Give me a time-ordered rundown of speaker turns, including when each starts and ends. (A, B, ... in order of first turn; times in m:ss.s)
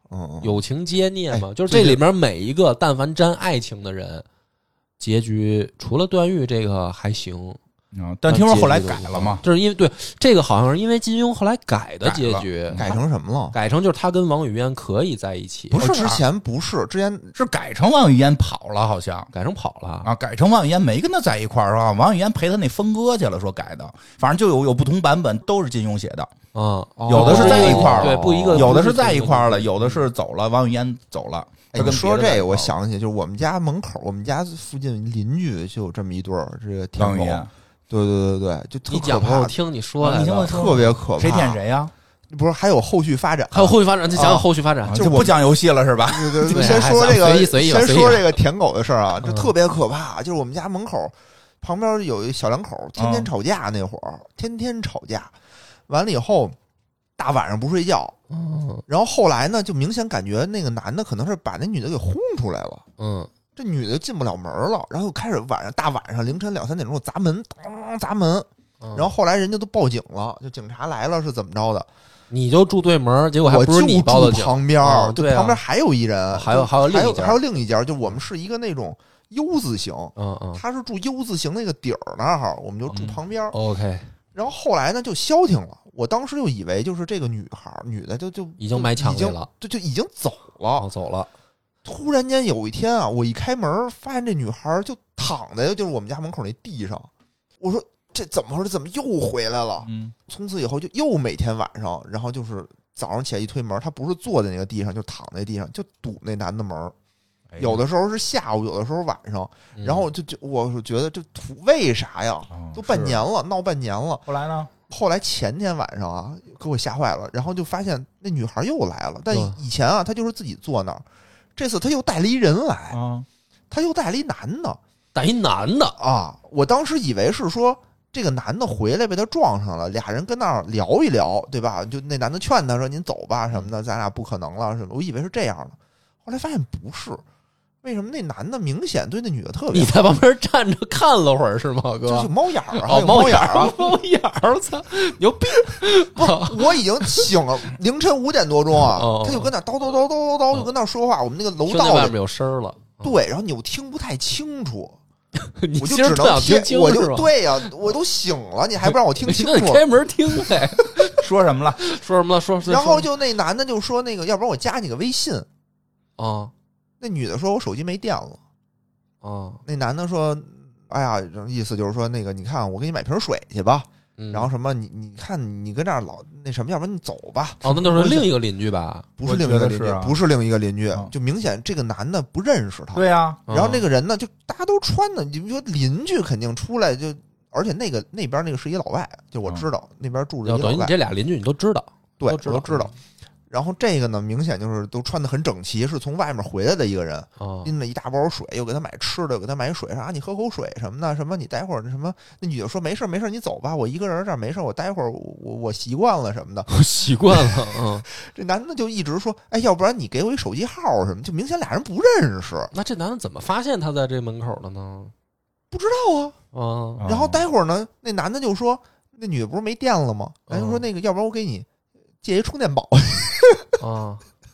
0:00.1-0:00.6 A
0:00.4-0:04.3 B
0:01.3-0:02.0 A
0:05.0-0:07.6 B
0:07.9-0:09.4 C
0:08.3-0:13.0 B
0:12.0-0:12.9 C
0:12.8-0:13.6 A
0:13.5-0:15.8 B
0:15.7-0:16.2 C
0:15.8-0:17.3 A
0:17.4-0:19.3 C
0:19.3-0:20.1 B
0:20.0-0:26.3 C
0:26.5-0:29.7 B
0:27.0-0:28.8 A
0:27.1-0:32.7 C
0:31.7-0:39.6 A
0:37.0-0:37.5 C
0:38.9-0:40.7 B
0:40.0-0:41.9 C
0:40.5-0:41.6 A
0:42.3-0:45.4 A
0:43.5-0:45.2 B
0:44.9-0:46.9 C
0:46.0-0:55.3 A
0:46.5-0:48.4 B
0:49.2-0:49.5 B
0:53.0-0:53.3 C
0:55.9-0:56.6 A
0:57.2-0:58.2 A
0:58.3-0:58.8 B
0:58.9-1:02.8 A
1:03.0-1:03.3 B
1:03.6-1:11.9 A
1:08.8-1:09.1 B
1:12.3-1:15.6 B
1:13.4-1:23.6 A
1:16.3-1:17.4 B
1:20.2-1:20.6 B
1:22.9-1:23.2 C
1:23.5-1:24.1 B
1:24.4-1:30.9 A
1:28.6-1:29.5 B
1:30.8-1:31.3 B
1:31.8-1:46.9 A
1:39.8-1:40.1 C
1:47.5-1:47.8 C
1:47.6-1:54.2 A
1:49.8-1:50.1 B
1:52.5-1:53.2 C
1:54.3-1:54.7 C
1:54.9-2:03.0 A
1:59.3-1:59.6 B
2:02.9-2:03.3 C
2:03.7-2:04.8 A
2:05.1-2:06.0 B
2:06.0-2:17.2 A
2:17.8-2:20.0 A
2:19.7-2:27.3 B
2:22.0-2:23.8 A
2:26.0-2:32.2 A
2:28.8-2:29.5 B
2:31.7-2:33.2 B
2:33.0-2:35.0 A
2:35.4-2:37.8 B
2:35.8-2:39.8 A
2:38.8-2:41.2 B
2:41.0-2:41.8 C
2:41.8-2:43.1 B
2:42.6-2:45.5 A
2:46.2-2:46.5 B
2:47.0-2:48.4 A
2:49.2-2:49.6 B
2:49.6-2:58.3 A
2:54.2-2:54.5 B
2:57.6-2:59.1 B
2:59.2-3:11.0 A
2:59.2-3:00.2 C
3:02.9-3:03.4 C
3:03.5-3:03.8 B
3:10.4-3:12.9 B
3:12.2-3:12.9 A
3:13.5-3:26.7 A
3:17.4-3:17.7 B
3:26.7-3:28.1 B
3:27.2-3:32.7 A
3:32.7-3:35.1 B
3:35.7-3:36.4 A
3:36.5-3:37.0 B
3:37.0-3:37.4 C
3:37.0-3:41.7 A
3:40.5-3:40.8 B
3:42.2-3:43.8 A
3:43.8-3:44.2 B